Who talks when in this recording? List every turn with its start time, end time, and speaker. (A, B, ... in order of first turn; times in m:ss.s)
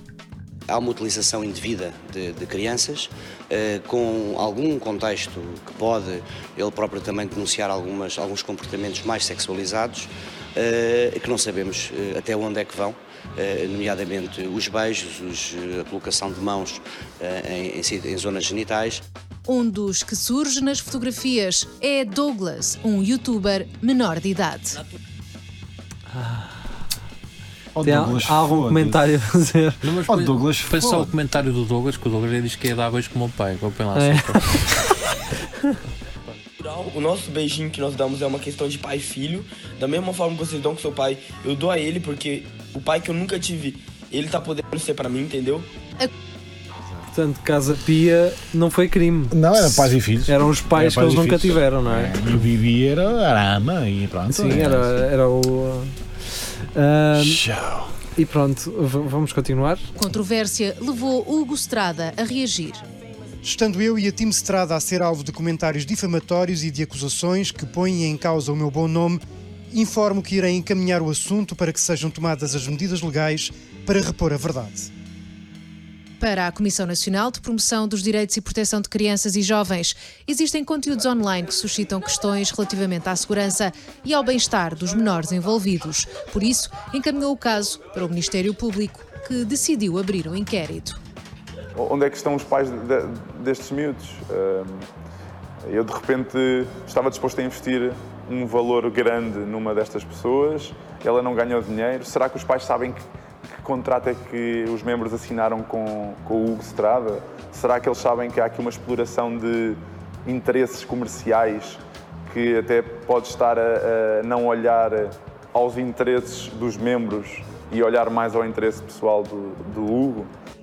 0:00.7-0:19.0 A
0:19.5-0:24.8 B
0:26.1-0:26.5 C
0:27.8-0:29.0 D
0:27.8-0:29.8 C
0:29.8-0:34.6 E
0:30.1-0:31.1 D
0:34.0-0:34.9 C
0:36.6-0:45.7 F
0:47.1-0:52.2 C
0:49.3-0:54.9 D
0:54.3-0:56.0 C
0:56.8-0:57.4 C
0:57.2-0:57.9 D
0:58.2-0:59.9 C
1:00.0-1:02.8 B
1:03.4-1:14.9 G
1:16.2-1:31.0 B
1:31.8-1:34.9 H
1:35.7-1:43.0 H
1:43.5-2:00.3 H